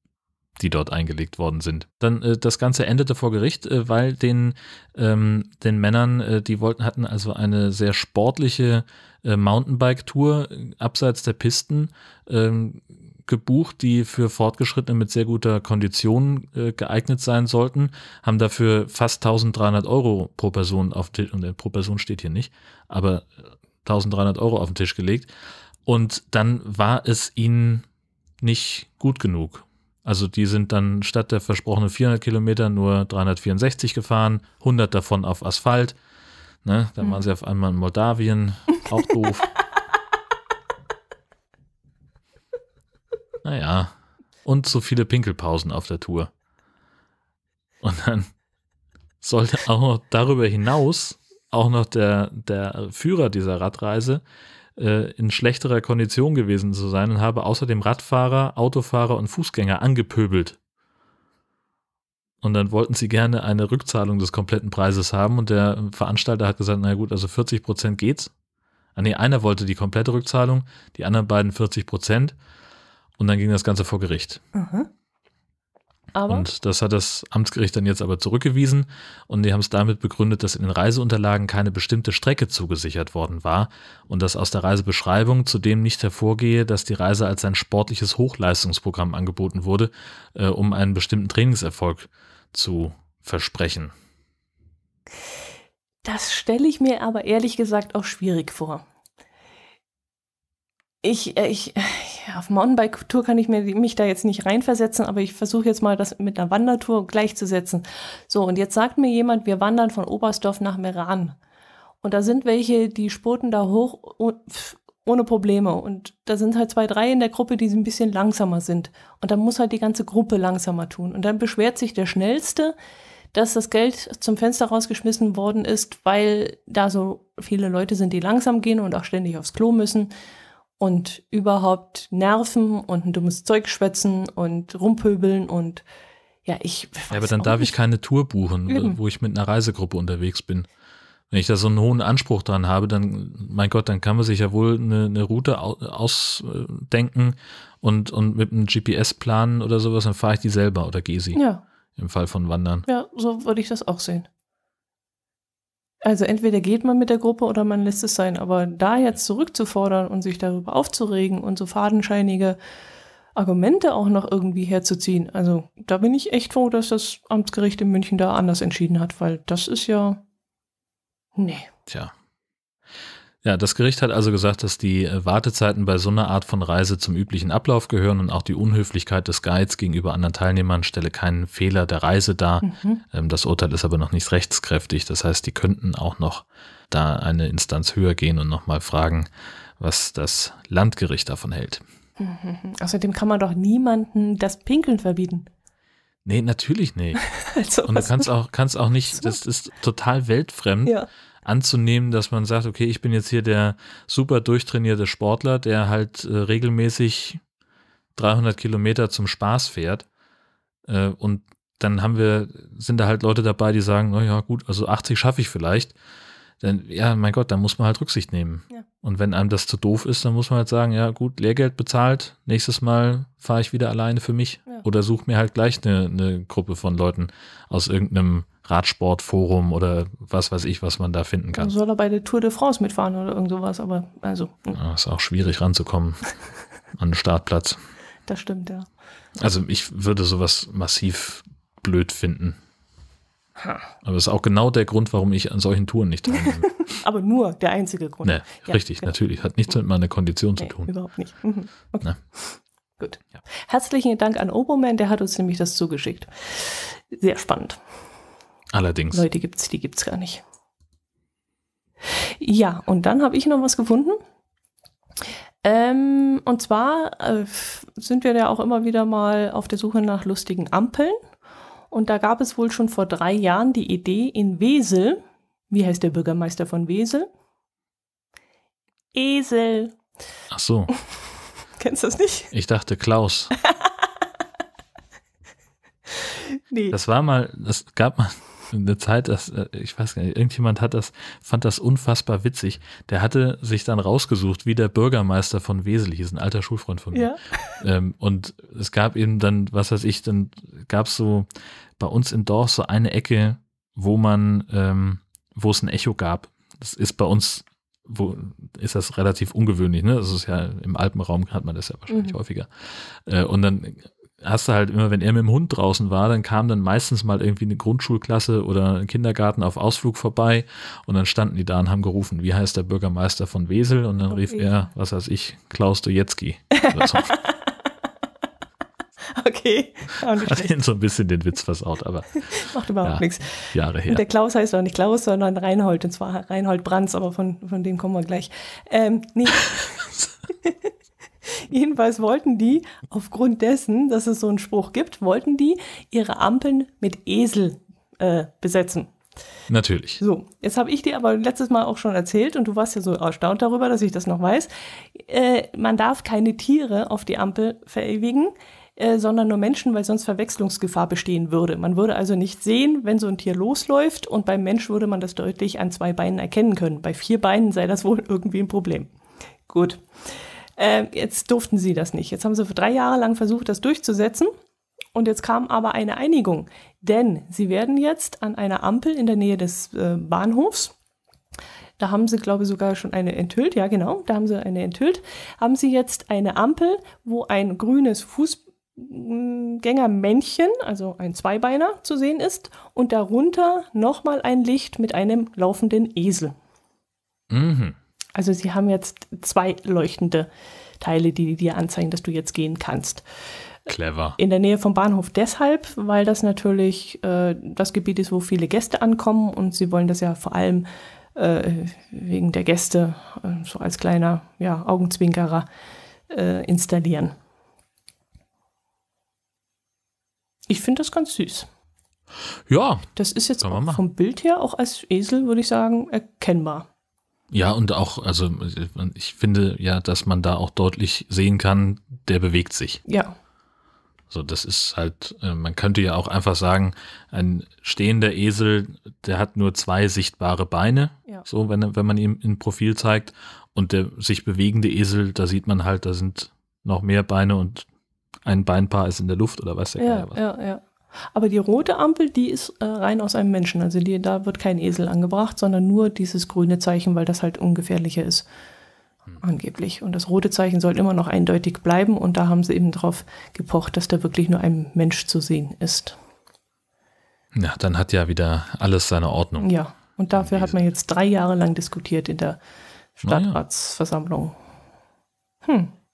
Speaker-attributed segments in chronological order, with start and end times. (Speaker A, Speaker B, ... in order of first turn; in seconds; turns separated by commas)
Speaker A: 0.6-25.3, Speaker A: 25.9-27.9, Speaker A: 28.4-36.0, Speaker A: 36.6-39.5, Speaker A: 43.4-46.3, Speaker A: 47.8-48.3, Speaker A: 49.2-54.2, Speaker A: 54.8-60.6, Speaker A: 62.4-68.3, Speaker A: 69.0-72.3, Speaker A: 73.2-74.4, Speaker B: 74.5-74.9, Speaker B: 76.1-76.5, Speaker A: 76.3-93.9, Speaker B: 96.0-98.8, Speaker B: 101.0-111.4, Speaker B: 112.0-122.7, Speaker B: 123.3-130.1, Speaker B: 130.8-135.8, Speaker B: 136.4-137.7, Speaker A: 137.1-140.7, Speaker B: 138.7-139.0, Speaker A: 141.3-151.4, Speaker B: 151.3-151.6, Speaker A: 152.0-152.8, Speaker B: 152.9-154.3, Speaker B: 156.0-162.6, Speaker B: 163.3-170.2, Speaker B: 171.3-171.7, Speaker A: 171.9-172.1, Speaker A: 173.4-191.8, Speaker B: 182.6-183.0, Speaker B: 192.2-195.5, Speaker A: 196.2-197.2, Speaker B: 197.2-198.3, Speaker A: 197.8-207.4, Speaker A: 208.1-210.1, Speaker A: 210.8-215.9, Speaker A: 216.6-231.7, Speaker B: 231.6-234.8, Speaker A: 234.7-236.3, Speaker A: 236.9-237.8, Speaker B: 238.3-238.9, Speaker A: 239.3-242.6, Speaker A: 244.0-246.8, Speaker B: 246.3-249.1, Speaker A: 248.2-250.9, Speaker B: 250.6-257.8, Speaker A: 258.7-259.2, Speaker B: 259.1-260.4, Speaker B: 262.0-264.2, Speaker B: 265.6-271.2, Speaker B: 271.9-277.3, Speaker B: 279.1-280.0, Speaker A: 280.5-280.9, Speaker B: 281.8-282.5, Speaker A: 282.5-283.5, Speaker B: 283.6-283.9, Speaker B: 286.3-286.9, Speaker A: 286.9-327.3, Speaker B: 297.1-297.8, Speaker B: 312.1-312.4, Speaker B: 324.3-324.8, Speaker B: 326.7-327.8, Speaker B: 329.3-330.7, Speaker A: 330.3-334.2, Speaker B: 332.4-340.1, Speaker A: 340.0-340.3, Speaker B: 340.6-340.9, Speaker B: 341.4-349.1, Speaker A: 349.7-350.2, Speaker B: 350.2-369.1, Speaker B: 369.7-374.5, Speaker B: 375.1-380.9, Speaker B: 382.0-396.5, Speaker A: 397.5-398.0, Speaker B: 398.3-400.5, Speaker B: 401.0-403.2, Speaker A: 403.9-404.4, Speaker B: 404.4-415.7, Speaker B: 416.3-417.3, Speaker B: 420.7-421.7, Speaker A: 422.7-424.0, Speaker B: 423.1-426.9, Speaker A: 427.5-433.0, Speaker B: 433.1-433.4, Speaker A: 434.3-447.9, Speaker A: 448.4-450.4, Speaker B: 450.0-458.5, Speaker B: 459.4-466.1, Speaker A: 467.5-469.7, Speaker B: 469.6-472.6, Speaker A: 470.3-470.8, Speaker B: 473.2-474.6, Speaker A: 473.2-473.6, Speaker B: 475.6-475.9